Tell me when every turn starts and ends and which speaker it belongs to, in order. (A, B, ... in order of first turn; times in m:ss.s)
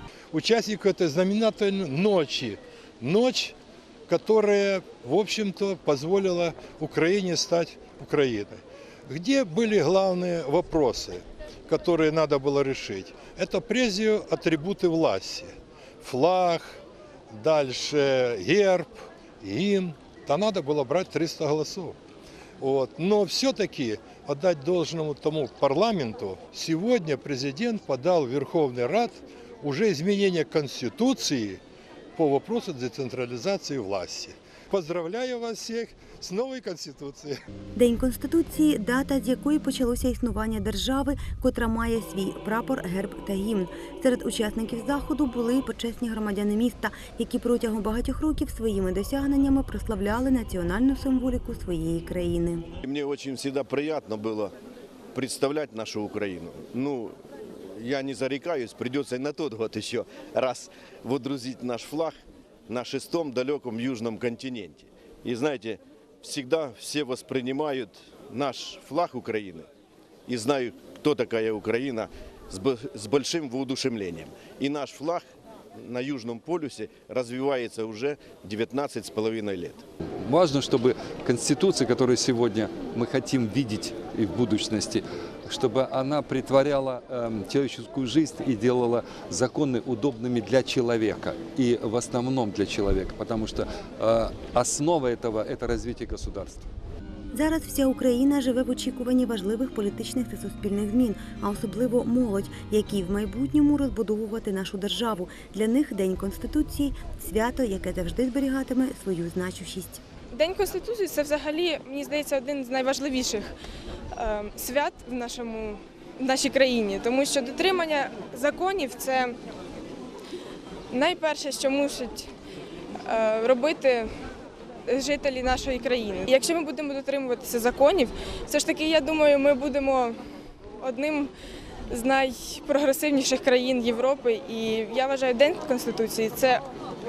0:00.3-0:03.6 A
0:04.1-0:16.8 A
0:17.3-0:22.0 A
0:22.6-0:31.6 A
0:32.2-0:37.4 A
0:37.8-0:52.7 B
0:52.8-0:54.5 C
0:55.1-1:09.7 C
1:10.3-1:19.8 C
1:20.3-1:36.7 D
1:37.3-1:50.0 B
1:50.3-1:53.5 E
1:54.1-1:59.3 E
2:00.9-2:02.3 E
2:03.0-2:04.1 E
2:04.9-2:10.2 E
2:10.8-2:11.3 E
2:11.9-2:16.6 E